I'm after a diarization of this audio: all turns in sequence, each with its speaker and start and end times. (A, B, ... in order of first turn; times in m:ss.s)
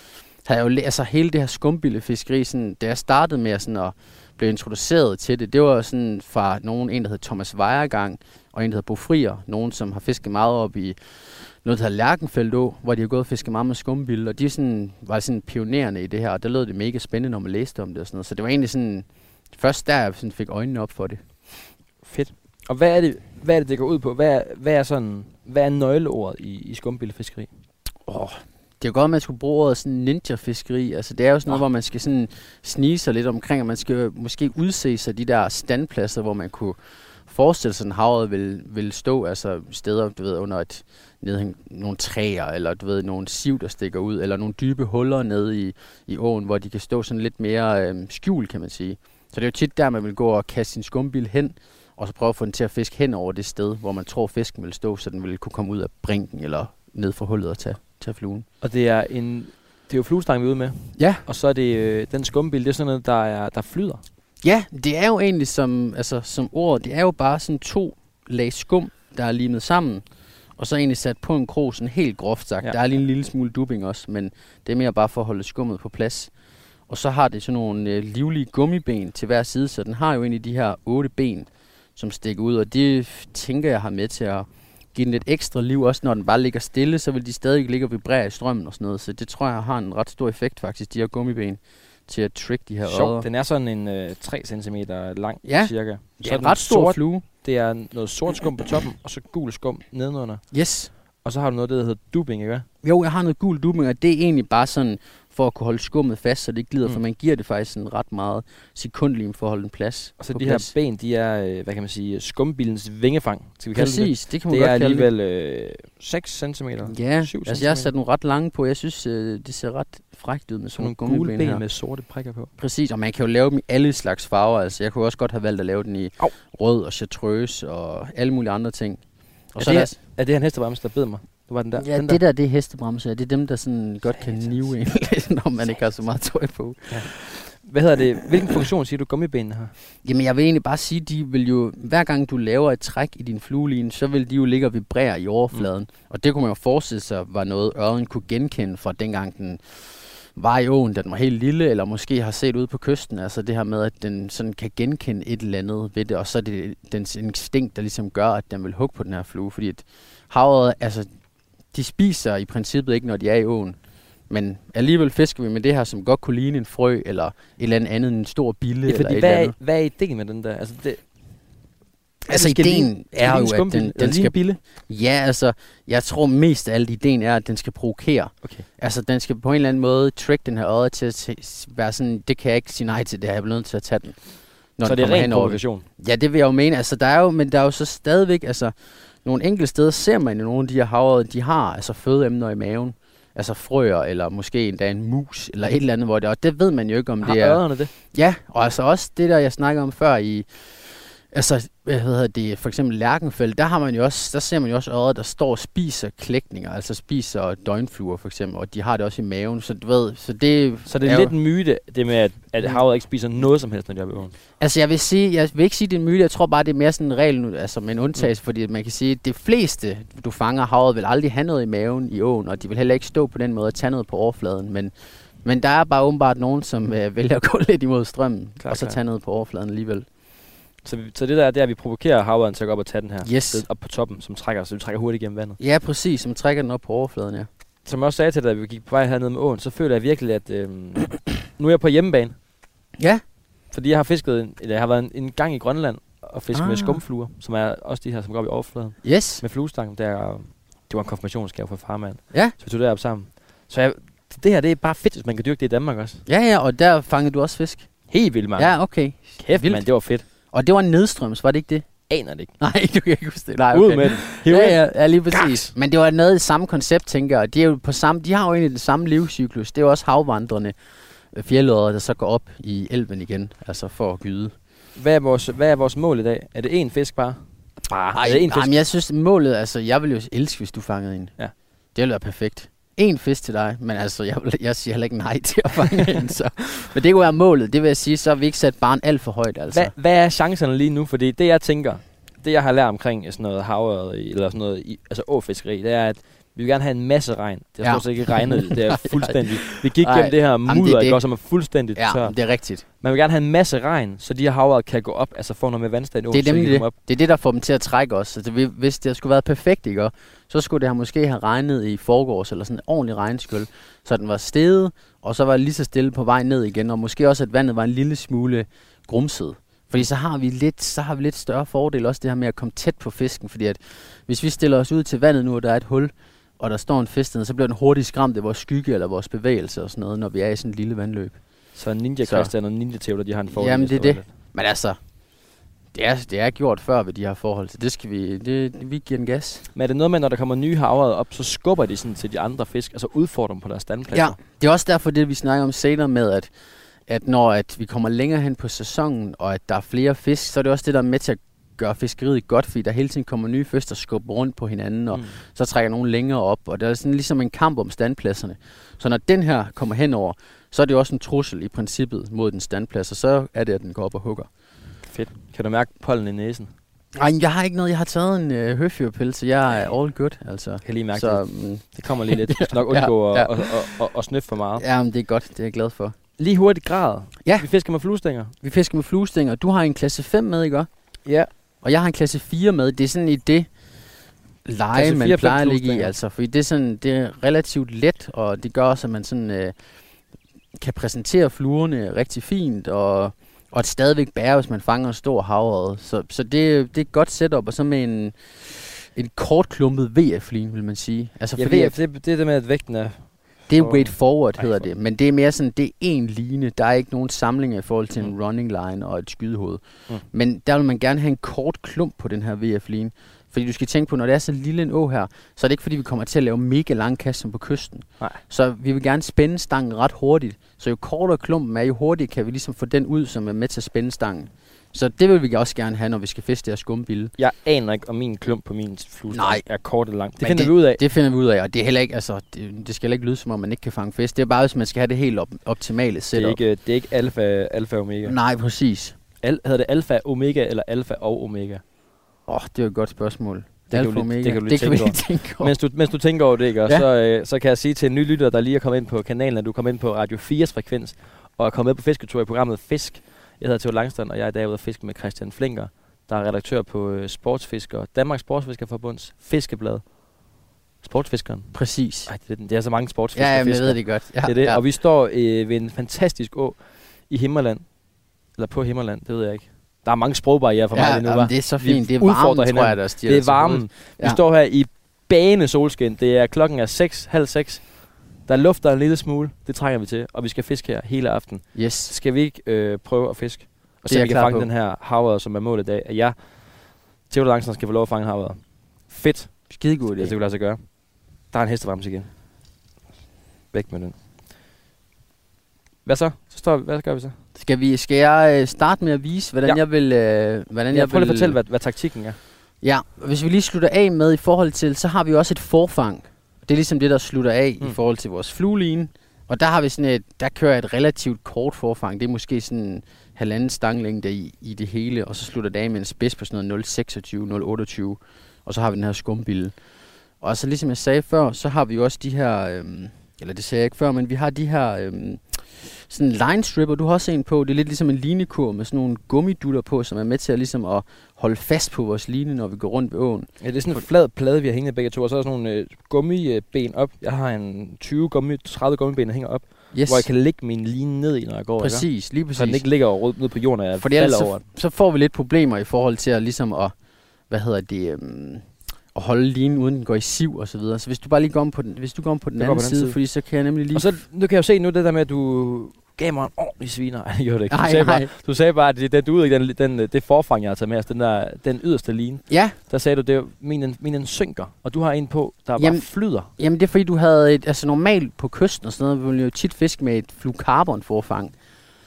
0:00.4-0:11.0 A
0:11.6-0:21.2 A
0:22.0-0:27.5 B
0:28.1-0:36.8 A
0:37.3-0:58.4 A
0:58.6-1:04.0 B
1:01.0-1:01.2 A
1:04.4-1:10.0 A
1:10.6-1:16.3 A
1:16.9-1:33.2 A
1:32.8-1:40.4 B
1:35.4-1:37.2 A
1:40.5-1:40.9 A
1:41.2-1:42.6 B
1:42.8-1:50.7 A
1:50.2-1:57.9 B
1:53.7-1:55.1 A
1:56.8-2:01.6 A
2:00.8-2:02.5 B
2:02.6-2:09.0 A
2:09.5-2:09.9 A
2:09.6-2:12.2 B
2:11.8-2:17.4 A
2:14.1-2:14.5 B
2:16.9-2:19.7 B
2:20.0-2:29.8 A
2:30.3-2:41.1 A
2:41.7-2:43.8 A
2:44.3-2:49.5 A
2:48.8-2:51.0 B
2:52.3-2:54.4 A
2:52.3-2:54.6 B
2:54.9-3:04.2 A
3:04.8-3:08.7 A
3:04.8-3:05.8 B
3:09.2-3:20.5 A
3:17.2-3:17.9 B
3:21.3-3:31.3 A
3:30.9-3:34.3 B
3:34.6-3:44.9 A
3:45.4-3:50.0 A
3:48.6-3:49.0 B
3:50.8-3:55.6 B
3:53.2-3:53.6 A
3:55.6-3:57.5 A
3:57.8-4:02.4 B
4:03.7-4:16.2 B
4:06.5-4:07.0 A
4:09.0-4:09.4 A
4:16.3-4:17.9 A
4:18.1-4:18.7 B
4:18.6-4:19.8 A
4:19.4-4:20.2 B
4:20.5-4:21.8 A
4:22.1-4:22.5 B
4:22.6-4:30.7 A
4:23.7-4:24.8 B
4:25.3-4:25.7 B
4:31.3-4:34.5 A
4:35.0-4:38.7 B
4:38.1-4:41.3 A
4:41.9-4:49.9 A
4:49.7-5:02.3 B
4:57.8-5:01.2 A
5:02.0-5:02.8 A
5:03.0-5:06.9 B
5:06.3-5:31.4 A
5:31.8-5:34.3 B
5:32.2-5:32.5 A
5:33.5-5:35.0 A
5:35.9-5:39.6 A
5:39.7-5:44.4 B
5:44.1-5:46.5 A
5:47.1-6:04.5 A
6:05.1-6:06.7 B
6:07.1-6:13.9 A
6:10.8-6:14.8 B
6:14.8-6:16.2 A
6:16.4-6:18.5 B
6:18.6-6:20.9 A
6:21.8-6:23.7 A
6:24.6-6:29.7 A
6:24.9-6:26.1 B
6:30.8-6:42.0 A
6:41.6-6:44.9 B
6:43.7-6:49.8 A
6:50.3-7:07.3 A
7:07.4-7:11.0 B
7:09.3-7:09.6 A
7:10.4-7:16.6 A
7:16.3-7:18.4 B
7:18.2-7:19.1 A
7:19.4-7:21.8 B
7:22.5-7:25.7 A
7:23.9-7:40.0 B
7:41.0-7:41.7 B
7:41.7-7:42.3 A
7:42.3-7:47.9 B
7:43.3-7:44.8 A
7:48.6-7:57.9 B
7:50.9-7:54.4 A
7:58.4-8:06.4 B
8:01.7-8:02.1 A
8:04.1-8:04.7 A
8:07.2-8:10.8 B
8:09.7-8:10.3 A
8:11.5-8:12.3 B
8:13.7-8:14.2 B
8:16.0-8:17.3 B
8:17.5-8:21.6 A
8:20.9-8:22.4 B
8:22.8-8:39.7 A
8:40.4-8:54.0 A
8:53.6-9:04.6 B
8:59.9-9:00.3 A
9:01.8-9:02.8 A
9:04.0-9:06.9 A
9:07.5-9:14.1 A
9:12.6-9:13.2 B
9:13.9-9:26.5 B
9:17.7-9:18.3 A
9:22.5-9:22.8 A
9:25.8-9:31.5 A